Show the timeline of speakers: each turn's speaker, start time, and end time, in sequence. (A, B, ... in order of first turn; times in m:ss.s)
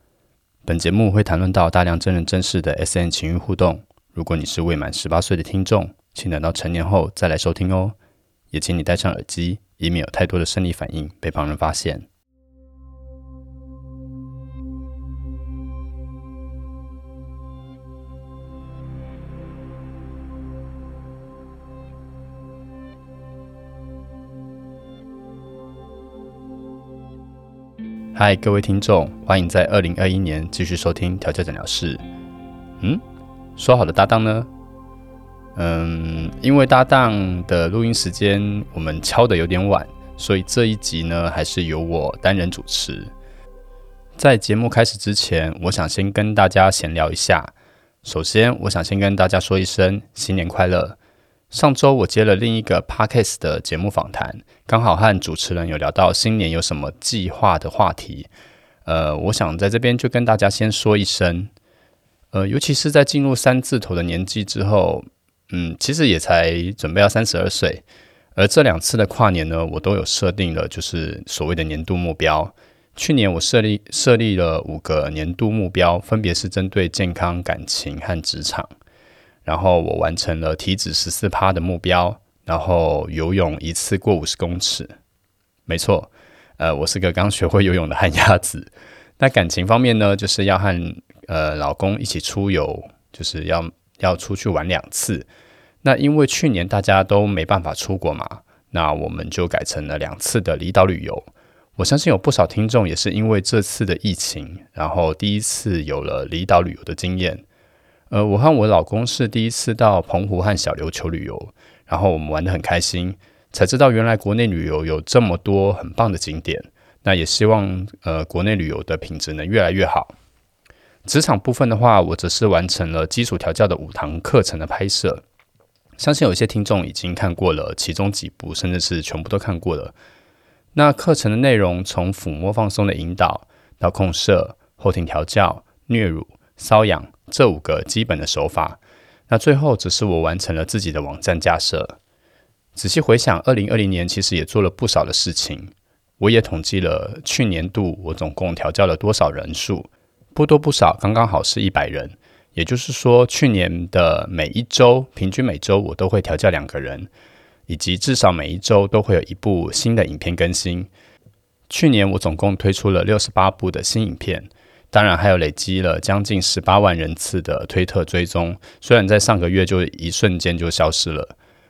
0:00.6-0:08.0 A
0:08.5-0:12.1 A
0:28.1-0:32.0 A
0:33.6-0:34.5 A
0:35.5-0:43.1 A
0:44.2-0:47.5 A
0:48.0-0:51.0 A
0:51.5-0:58.3 A
0:58.8-1:01.5 A
1:02.3-1:07.8 A
1:08.4-1:18.7 A
1:19.4-1:24.9 A
1:25.7-1:35.3 A
1:35.8-1:47.4 A
1:48.1-2:00.1 A
2:01.0-2:05.2 A
2:06.0-2:09.9 A
2:10.7-2:22.0 A
2:22.7-2:37.1 A
2:37.7-2:40.9 A
2:41.7-2:51.3 A